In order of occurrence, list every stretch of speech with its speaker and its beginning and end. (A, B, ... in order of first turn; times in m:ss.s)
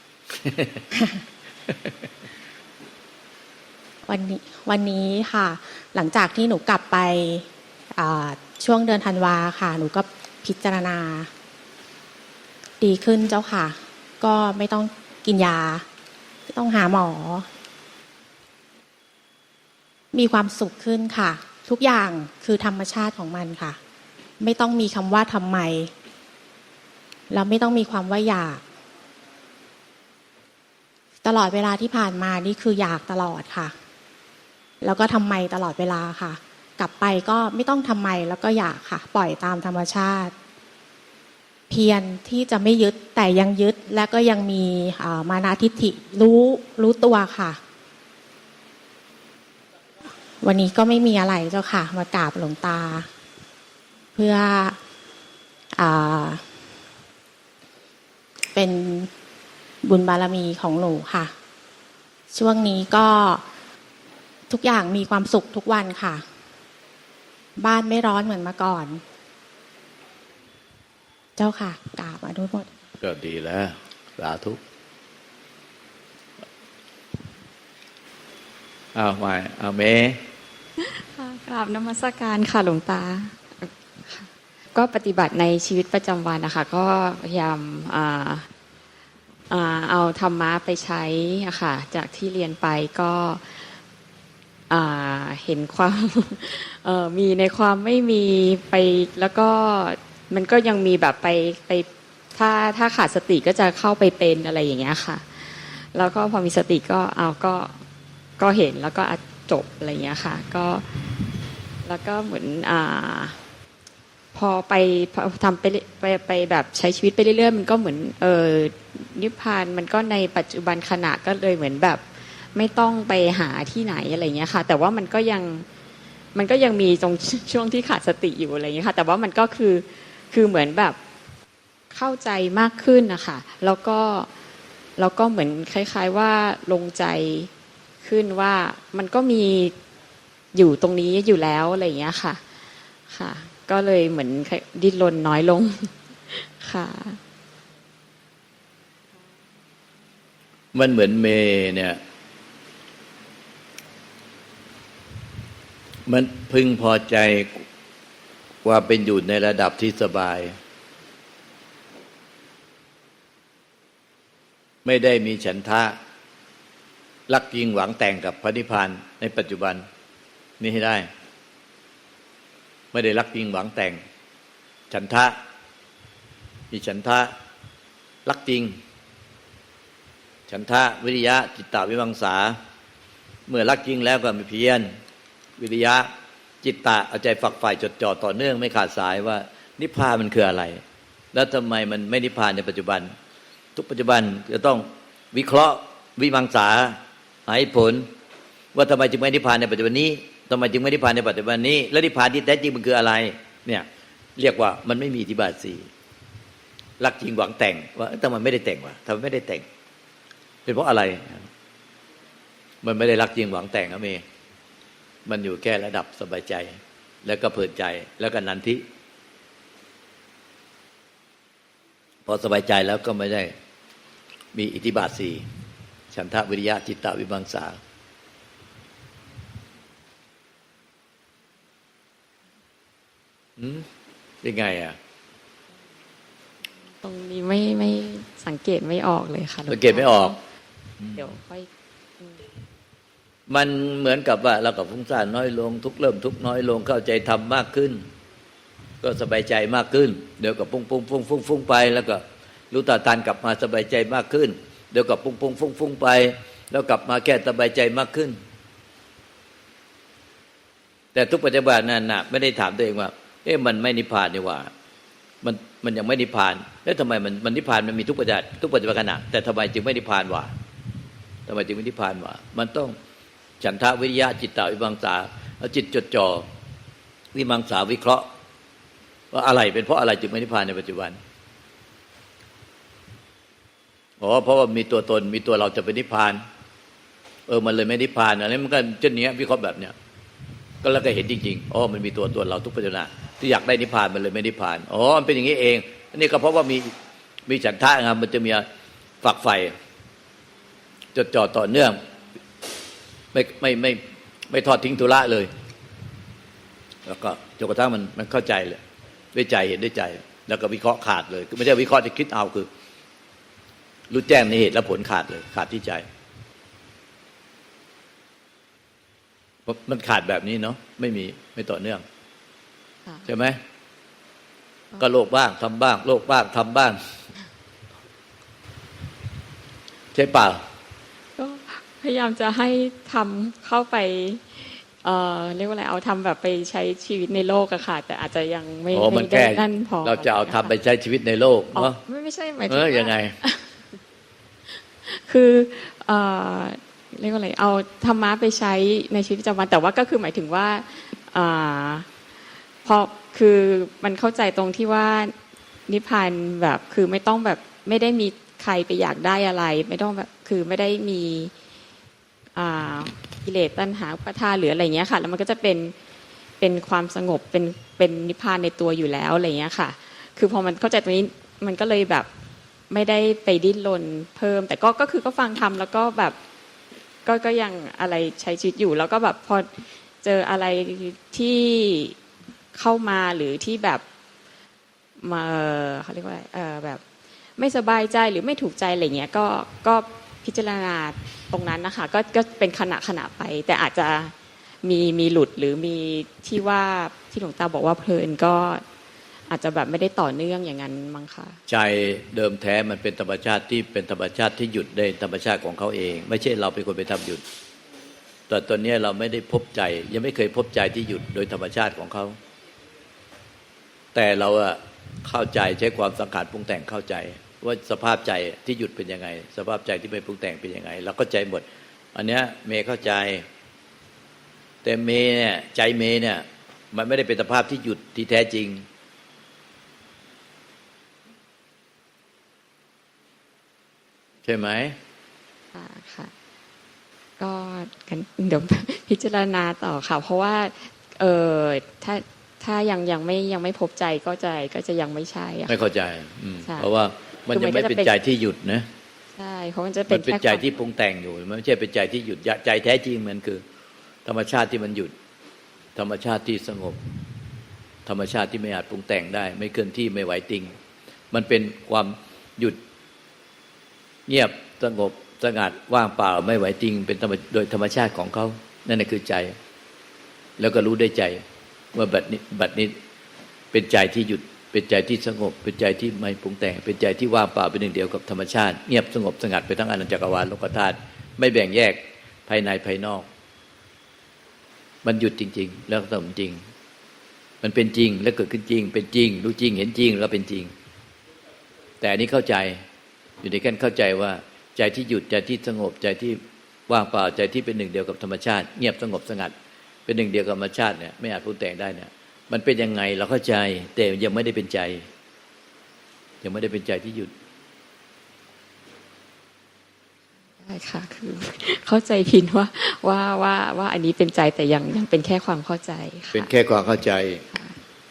0:00.4-0:00.8 A
0:00.9-0:01.2 B
0:04.1-0:11.3 B
0:12.8-0:15.8 B
0:16.5-0:17.5 B
0:20.1-0:23.8 B
0:24.4-0:25.9 B
0:27.3-0:28.6 B
0:31.2-0:33.7 B
0:34.8-0:40.3 B
0:41.7-0:47.6 B
0:50.4-0:53.1 B
0:54.2-0:54.8 B
0:55.7-0:56.4 B
0:58.5-0:59.1 B
0:59.8-1:01.3 B
1:02.3-1:03.4 B
1:04.5-1:06.2 B
1:07.6-1:09.0 B
1:11.4-1:12.7 B
1:13.0-1:14.6 A
1:19.0-1:20.2 A
1:20.8-1:28.5 C
1:29.5-1:33.8 C
1:34.7-1:47.8 C
1:48.4-1:51.1 C
1:51.8-1:53.4 C
1:54.3-2:05.6 C
2:06.4-2:11.0 C
2:11.9-2:14.3 C
2:15.0-2:17.5 C
2:18.0-2:19.8 C
2:20.5-2:22.4 C
2:23.1-2:27.2 C
2:30.7-2:32.0 A
2:36.1-2:37.6 A
2:38.6-2:40.6 A
2:44.8-2:46.0 A
2:47.3-2:49.9 A
2:50.6-2:51.1 A
2:52.9-2:54.0 A
2:54.9-2:55.4 A
2:56.7-2:57.3 A
2:58.2-2:58.8 A
3:00.5-3:02.6 A
3:03.5-3:04.9 A
3:05.6-3:06.1 A
3:06.6-3:10.8 A
3:11.3-3:13.1 A
3:13.8-3:18.1 A
3:18.7-3:25.9 A
3:27.0-3:29.6 A
3:30.6-3:31.5 A
3:32.8-3:34.2 A
3:35.2-3:38.8 A
3:42.2-3:43.6 A
3:44.5-3:45.5 A
3:46.1-3:47.8 A
3:53.6-3:53.9 A
3:54.4-3:55.0 A
3:56.9-4:00.4 C
3:59.7-4:00.4 A
4:01.1-4:01.7 C
4:03.5-4:08.1 A
4:09.0-4:18.4 A
4:21.1-4:24.7 A
4:25.4-4:30.5 A
4:31.5-4:33.0 A
4:33.6-4:36.5 A
4:37.3-4:38.3 A
4:39.3-4:41.2 A
4:44.2-4:46.4 A
4:47.5-4:50.0 A
4:50.8-4:56.9 A
4:57.5-4:58.6 A
4:59.2-4:59.8 A
5:01.1-5:02.0 A
5:03.3-5:05.5 A
5:07.0-5:08.8 A
5:09.3-5:12.7 A
5:14.1-5:16.1 A
5:19.6-5:22.0 A
5:23.3-5:23.6 A
5:25.0-5:27.0 A
5:30.1-5:30.6 A
5:31.4-5:40.7 C
5:38.9-5:42.0 A
5:41.7-5:43.7 C
5:42.7-5:43.4 A
5:45.0-5:52.1 C
5:52.8-5:55.3 C
5:55.9-6:01.5 C
6:02.6-6:05.9 C
6:06.6-6:12.3 C
6:12.9-6:16.4 C
6:17.2-6:22.2 C
6:22.7-6:24.0 C
6:25.2-6:27.0 C
6:27.6-6:38.8 C
6:39.5-6:41.6 C
6:41.7-6:47.4 A
6:48.5-6:52.4 A
6:54.1-7:03.4 A
7:04.8-7:08.9 A
7:14.4-7:15.0 A
7:15.7-7:16.3 C
7:17.4-7:25.8 C
7:25.7-7:28.9 A
7:26.6-7:26.9 C
7:27.5-7:28.1 C
7:29.4-7:30.6 C
7:30.1-7:33.6 A
7:34.2-7:35.1 A
7:35.9-7:37.0 A
7:38.1-7:40.7 A
7:41.3-7:42.8 A
7:44.3-7:49.6 A
7:50.6-7:51.4 A
7:51.9-7:53.0 A
7:53.7-8:03.3 A
8:05.0-8:06.6 A
8:07.6-8:10.7 A
8:12.0-8:12.8 A
8:13.4-8:19.5 A
8:20.1-8:25.1 A
8:26.4-8:27.3 A
8:30.6-8:36.5 C
8:36.3-8:37.4 A
8:37.5-8:37.8 C